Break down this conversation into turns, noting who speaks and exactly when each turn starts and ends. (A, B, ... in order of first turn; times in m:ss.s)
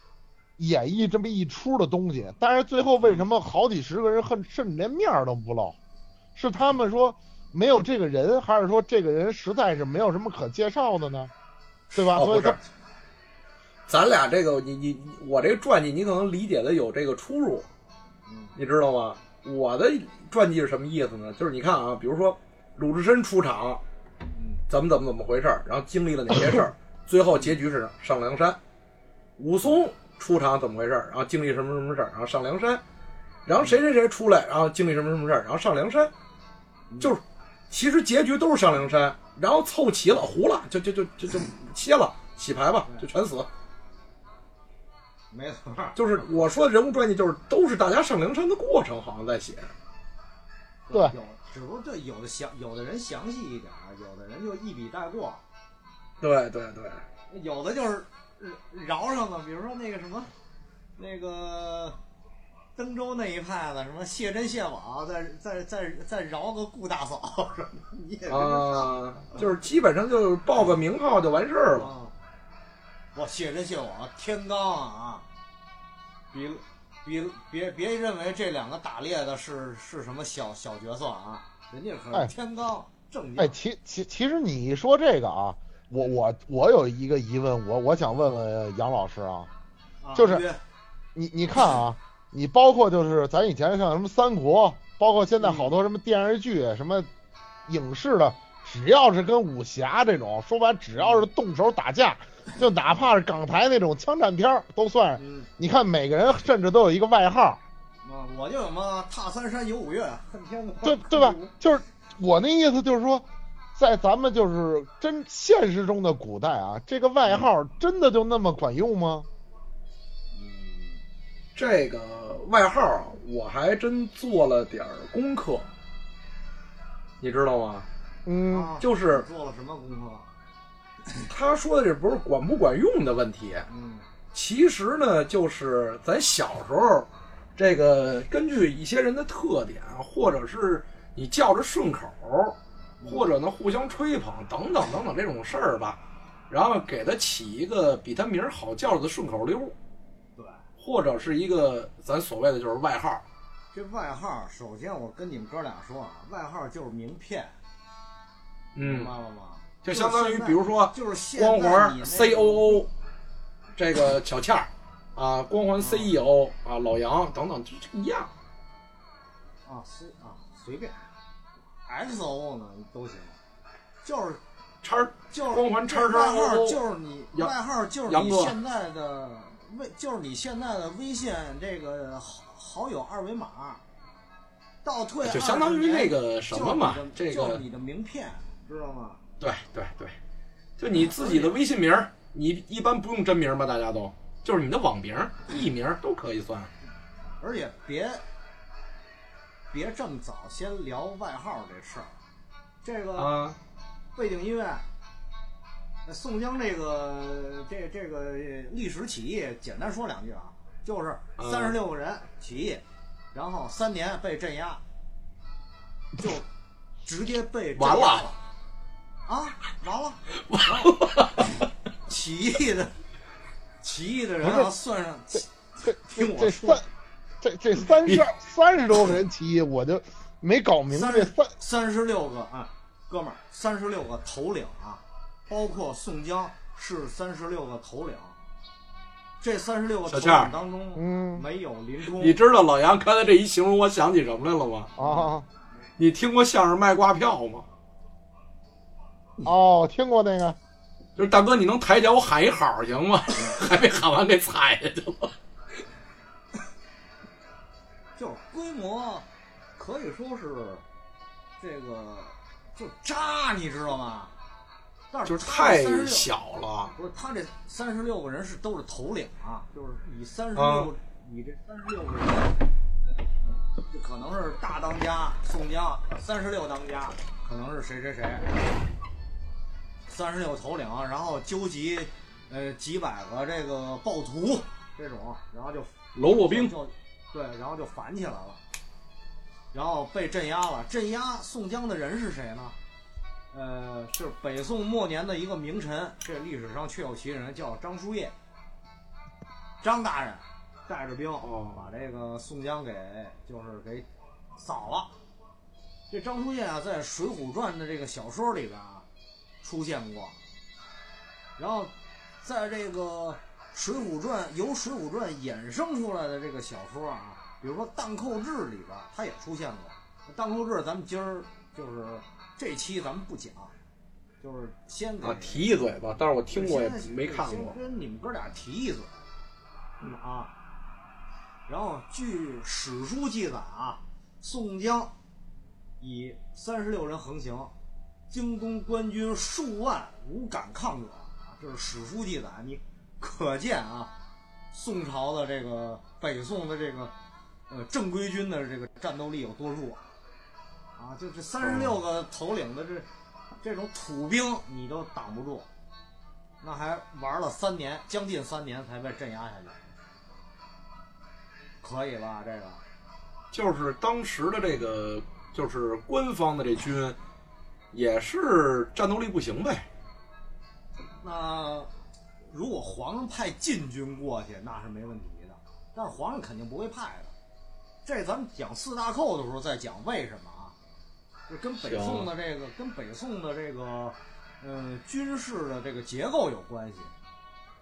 0:00.6-0:05.8 A
0:06.4-0:11.3 A
0:11.9-0:12.6 A
0:12.1-0:12.6 B
0:13.9-0:17.7 B
0:18.3-0:18.6 C
0:18.6-0:23.8 B
0:24.4-0:24.6 C
0:24.7-0:28.6 B
0:29.4-0:32.8 B
0:33.5-0:36.1 B
0:36.9-0:37.2 C
0:37.0-0:43.5 B
0:45.3-0:46.0 C
0:46.0-0:49.7 B
0:50.9-0:55.4 C
0:56.2-0:57.0 B
0:57.3-1:00.3 C
1:01.0-1:02.0 C
1:02.8-1:09.4 C
1:08.3-1:11.9 B
1:11.7-1:12.1 C
1:13.2-1:15.2 C
1:16.3-1:23.6 C
1:23.4-1:29.5 A
1:30.0-1:30.6 C
1:30.2-1:30.4 A
1:31.2-1:37.1 A
1:35.4-1:35.7 C
1:37.7-1:47.6 A
1:41.0-1:41.3 C
1:45.2-1:45.5 C
1:48.0-1:51.5 C
1:50.8-1:59.3 A
2:00.3-2:01.0 C
2:01.6-2:05.7 B
2:07.2-2:07.9 B
2:08.3-2:08.7 A
2:08.5-2:10.3 C
2:08.8-2:09.3 B
2:11.3-2:13.7 B
2:13.7-2:14.1 C
2:14.3-2:29.8 B
2:23.0-2:23.3 C
2:30.4-2:30.6 C
2:30.8-2:33.2 B
2:33.7-2:37.5 C
2:38.8-2:39.1 B
2:38.8-2:42.9 C
2:39.8-2:42.9 B
2:43.8-2:48.3 B
2:45.8-2:46.1 C
2:49.7-2:51.1 C
2:51.9-2:53.4 C
2:54.0-2:54.4 C
2:54.8-2:56.8 B
2:55.3-3:03.8 C
2:58.1-2:58.6 B
3:04.8-3:09.2 C
3:05.2-3:07.6 B
3:09.4-3:10.2 B
3:10.8-3:16.7 B
3:11.0-3:11.6 C
3:17.4-3:18.2 C
3:19.7-3:22.1 C
3:22.8-3:23.4 C
3:23.2-3:23.6 B
3:24.2-3:24.8 C
3:26.1-3:32.8 C
3:31.4-3:31.8 B
3:33.3-3:34.8 C
3:36.2-3:36.5 C
3:37.0-3:38.4 C
3:37.8-3:38.3 B
3:39.3-3:41.5 C
3:40.5-3:41.5 B
3:42.1-3:42.9 C
3:43.8-3:46.8 C
3:44.4-3:44.7 A
3:45.9-3:46.9 A
3:47.4-3:51.5 A
3:48.0-3:48.3 B
3:50.9-3:58.4 C
3:59.4-4:02.4 C
4:00.1-4:00.5 B
4:01.0-4:01.4 A
4:02.2-4:04.9 B
4:05.0-4:05.5 A
4:05.0-4:05.3 C
4:06.0-4:07.7 B
4:09.4-4:10.6 A
4:11.2-4:15.4 B
4:18.2-4:20.8 C
4:21.6-4:24.3 C
4:25.1-4:26.3 C
4:25.2-4:26.9 B
4:26.9-4:32.6 C
4:30.6-4:30.9 B
4:33.8-4:38.5 C
4:40.1-4:48.6 C
4:46.2-4:46.7 B
4:49.7-4:52.8 C
4:53.5-4:58.3 C
4:59.8-5:04.1 C
5:01.4-5:01.8 B
5:04.6-5:05.1 C
5:06.1-5:09.1 C
5:09.6-5:10.4 C
5:11.6-5:23.7 C
5:24.4-5:25.7 C
5:25.2-5:27.8 B
5:26.5-5:29.3 C
5:30.1-5:30.5 C
5:31.7-5:35.1 C
5:36.0-5:37.7 C
5:38.3-5:44.1 C
5:44.7-5:47.1 C
5:47.7-5:50.1 C
5:51.0-5:53.1 C
5:51.6-5:51.9 B
5:53.6-5:55.7 C
5:56.6-5:59.9 C
6:01.8-6:02.8 C
6:03.5-6:07.2 B
6:07.9-6:09.9 B
6:11.2-6:11.9 C
6:12.5-6:17.3 C
6:18.0-6:20.8 C
6:21.5-6:27.1 C
6:21.8-6:22.3 B